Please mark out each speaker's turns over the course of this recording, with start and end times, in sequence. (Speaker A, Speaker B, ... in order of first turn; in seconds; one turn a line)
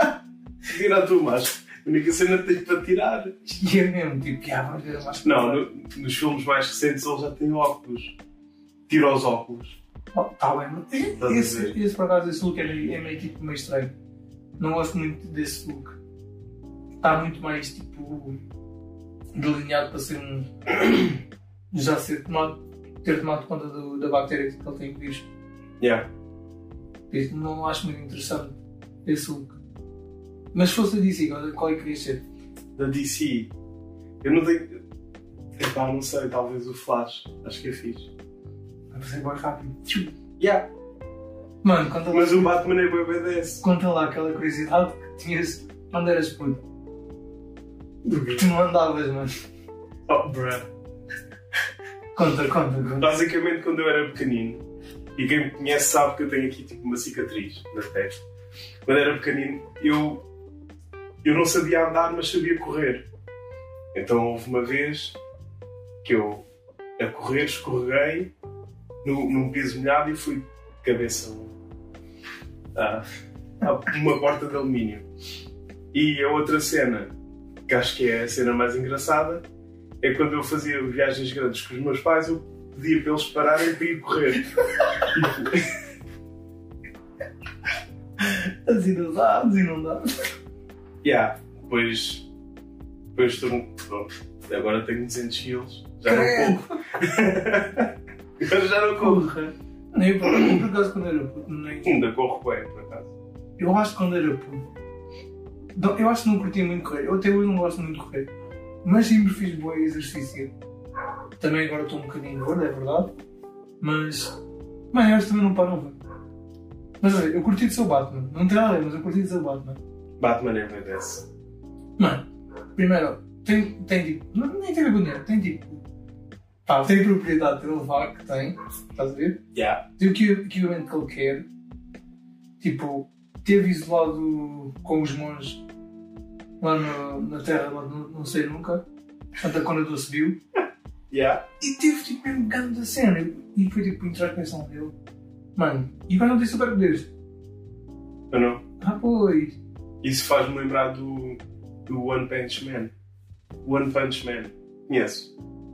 Speaker A: 0.7-3.5
Speaker B: 3.5-5.6
Speaker A: 5.2-8.2
Speaker A: 8.9-9.8
Speaker B: 10.1-13.9
Speaker A: 11.2-11.8
Speaker B: 14.6-16.0
Speaker B: 17.0-18.4
Speaker B: 19.3-21.1
Speaker B: 21.7-25.3
Speaker A: 25.8-26.1
Speaker B: 27.1-29.6
Speaker B: 30.5-32.2
Speaker A: 32.8-33.5
Speaker A: 34.2-34.8
Speaker A: 35.6-38.1
Speaker B: 38.9-40.1
Speaker A: 40.4-40.7
Speaker B: 41.6-42.6
Speaker A: 42.1-43.6
Speaker B: 43.6-46.6
Speaker A: 48.0-48.5
Speaker B: 48.4-49.3
Speaker A: 50.1-50.7
Speaker B: 52.1-53.1
Speaker A: 53.0-54.6
Speaker A: 55.1-58.2
Speaker A: 58.8-60.2
Speaker A: 61.2-63.0
Speaker A: 63.9-65.2
Speaker A: 66.0-66.4
Speaker A: 67.0-68.3
Speaker A: 69.0-71.5
Speaker A: 72.7-73.0
Speaker A: 73.6-75.0
Speaker A: 75.9-77.1
Speaker A: 77.7-79.4
Speaker A: 80.0-85.7
Speaker B: 88.2-90.3
Speaker A: 91.0-92.2
Speaker A: 93.1-99.2
Speaker B: 96.0-96.8
Speaker B: 99.0-102.0
Speaker A: 100.3-100.6
Speaker A: 101.8-103.1
Speaker B: 103.6-104.7
Speaker B: 105.7-108.3
Speaker B: 108.8-110.5
Speaker B: 111.4-113.1
Speaker B: 113.8-114.3
Speaker B: 114.9-116.0
Speaker B: 117.0-119.8
Speaker A: 120.2-121.2
Speaker B: 122.0-125.8
Speaker B: 126.7-129.4
Speaker A: 129.5-129.8
Speaker B: 130.0-131.5
Speaker B: 132.6-135.6
Speaker B: 136.6-138.8
Speaker B: 139.4-140.4
Speaker A: 141.1-141.4
Speaker B: 141.6-144.9
Speaker B: 145.6-147.1
Speaker A: 148.3-148.6
Speaker B: 148.8-149.6
Speaker A: 150.0-152.9
Speaker A: 153.6-155.3